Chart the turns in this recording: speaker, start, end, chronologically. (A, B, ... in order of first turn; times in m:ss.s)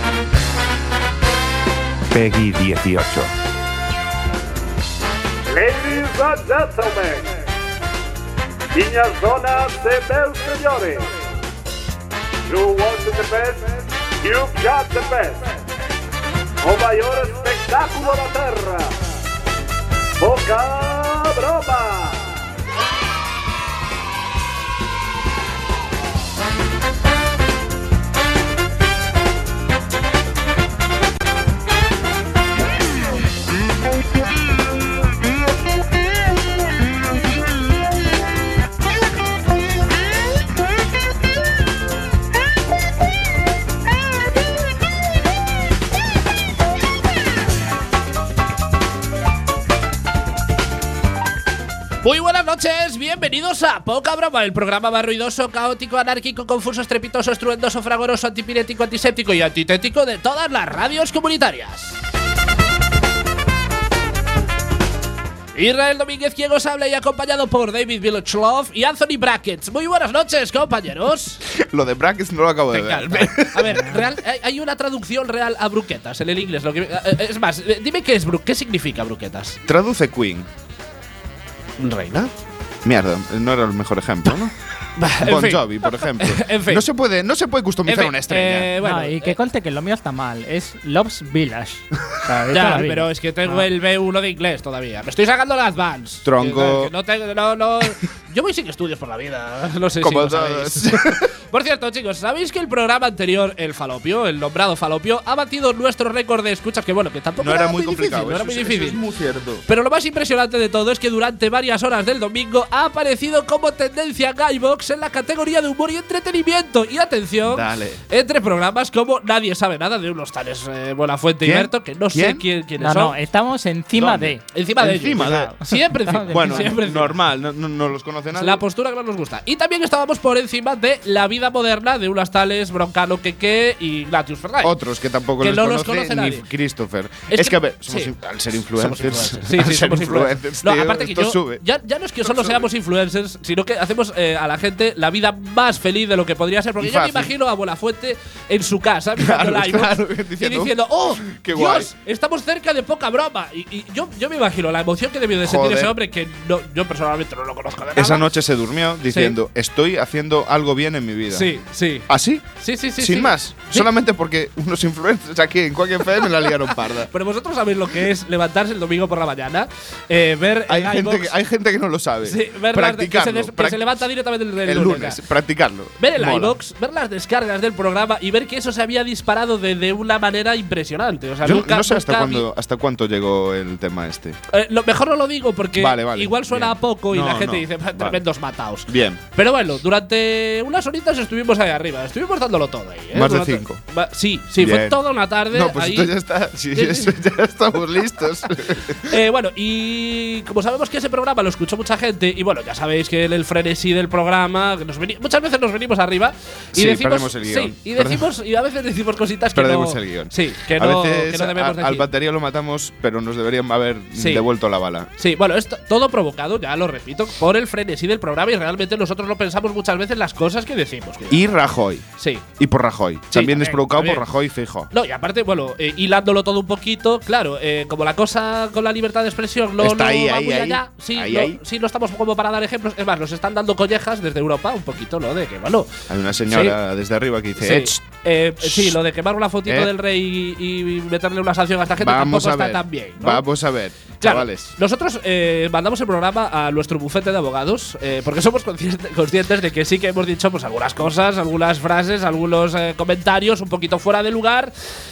0:02.1-0:03.3 A
0:05.5-0:07.2 B
0:08.8-0:11.1 B
0:12.5-0:13.6 B
0:14.2-0:15.4 B
0:16.6-0:18.9 B
0:20.2-0:22.2 B
0:52.0-1:02.0 C
1:05.6-1:11.4 C
1:11.4-1:14.0 A
1:12.7-1:19.6 C
1:19.6-1:20.5 A
1:21.8-1:22.3 C
1:22.8-1:24.6 A
1:25.0-1:26.8 C
1:25.2-1:28.7 A
1:27.8-1:29.4 C
1:28.8-1:33.6 D
1:32.5-1:49.0 C
1:36.2-1:36.9 A
1:40.0-1:41.3 A
1:47.4-1:49.6 A
1:49.7-2:03.1 C
1:57.4-1:58.0 A
2:01.4-2:02.4 A
2:02.8-2:04.4 D
2:03.9-2:05.5 A
2:04.5-2:07.2 C
2:05.2-2:06.8 D
2:06.3-2:08.6 A
2:08.4-2:14.7 C
2:14.6-2:21.6 A
2:15.4-2:16.4 C
2:17.3-2:18.1 C
2:18.7-2:38.3 C
2:22.2-2:22.6 A
2:26.8-2:27.3 A
2:29.2-2:31.9 A
2:35.4-2:35.9 A
2:37.9-2:41.5 A
2:39.1-2:39.4 C
2:41.3-2:42.1 C
2:42.1-2:47.1 A
2:42.6-2:43.9 C
2:47.1-2:51.3 C
2:50.7-2:53.9 A
2:52.2-2:55.2 C
2:54.6-2:56.6 A
2:56.0-3:02.4 C
3:01.4-3:04.4 A
3:04.5-3:16.1 C
3:05.8-3:08.2 A
3:08.9-3:09.2 A
3:13.1-3:13.8 A
3:14.6-3:19.1 A
3:16.7-3:17.1 C
3:18.8-3:32.0 C
3:26.7-3:28.3 A
3:29.5-3:35.1 A
3:34.1-3:34.4 C
3:35.2-3:41.4 C
3:41.3-3:42.0 A
3:42.2-3:42.4 C
3:42.6-3:44.9 A
3:43.3-3:44.2 C
3:44.9-3:55.9 C
3:49.8-3:51.6 A
3:56.1-3:58.0 A
3:56.5-3:56.8 C
3:57.6-4:03.4 C
3:58.6-3:59.0 A
3:59.6-3:59.9 A
4:02.0-4:04.7 A
4:04.2-4:14.7 C